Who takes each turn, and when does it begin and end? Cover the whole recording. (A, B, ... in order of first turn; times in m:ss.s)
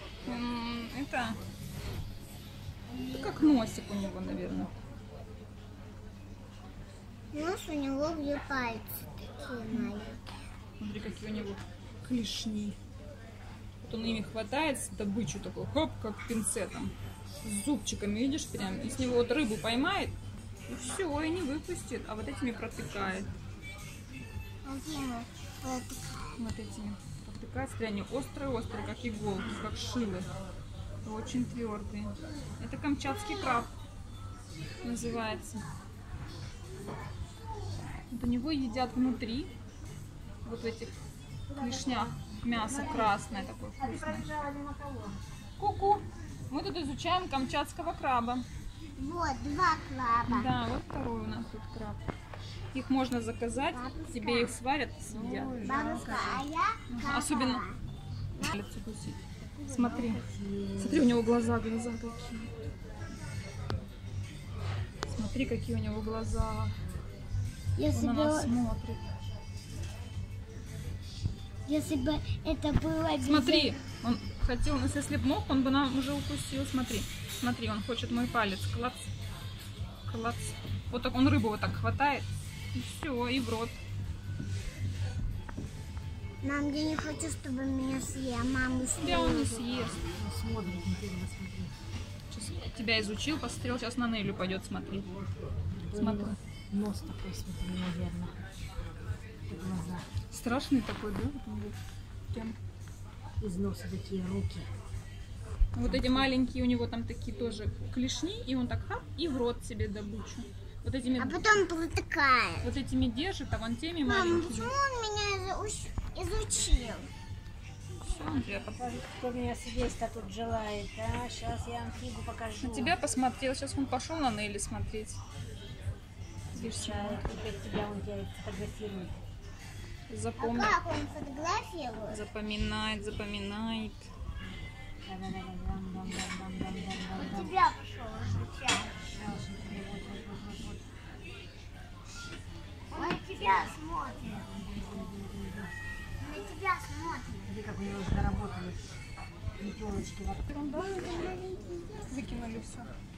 0:00.3-0:01.4 A
0:02.9-0:03.8 B
0:03.0-0:04.7 A
0:07.3-0:10.2 B
0:10.8-0:12.8 A
0:13.8-0:16.9 A
0:17.4-0:20.1 A
0:20.7-0:23.3 A
0:24.6-0:26.3 B
0:26.4-0:30.3 A
0:31.0-0:33.7 A
0:34.8-0:35.6 A
0:38.1-0:39.5 A
0:40.4-0:40.9 A
0:41.6-0:44.3 A
0:41.6-0:45.2 C
0:45.6-0:48.4 A
0:49.0-0:50.5 B
0:50.3-0:52.0 A
0:52.7-0:57.6 A
0:53.7-0:54.6 B
0:55.1-0:56.2 C
0:55.6-0:57.8 B
0:58.4-1:00.2 A
0:59.6-1:00.1 B
1:00.0-1:01.2 C
1:00.8-1:02.5 A
1:05.1-1:06.8 A
1:07.8-1:08.5 B
1:07.9-1:09.0 A
1:11.7-1:13.8 B
1:13.2-1:19.1 A
1:20.1-1:23.8 A
1:26.4-1:29.8 B
1:29.0-1:30.1 A
1:30.0-1:31.7 C
1:32.3-1:35.2 A
1:35.8-1:38.4 C
1:36.0-1:36.4 A
1:39.5-1:40.1 C
1:40.3-1:41.8 A
1:42.3-1:42.6 A
1:43.4-1:44.7 C
1:45.8-1:51.5 A
1:45.8-1:46.3 C
1:51.2-1:52.7 B
1:52.6-1:54.8 A
1:54.0-1:57.1 B
1:58.0-1:58.8 A
1:58.5-2:03.0 C
2:02.6-2:05.2 A
2:06.5-2:09.2 C
2:06.5-2:07.3 A
2:10.1-2:10.8 A
2:10.4-2:12.2 B
2:12.1-2:14.1 A
2:15.0-2:17.6 C
2:17.2-2:18.9 B
2:18.8-2:20.8 C
2:22.9-2:24.4 B
2:24.2-2:25.7 C
2:26.2-2:27.5 B
2:27.5-2:28.8 C
2:29.6-2:30.5 C
2:30.5-2:31.2 A
2:30.6-2:32.2 B
2:32.1-2:32.9 A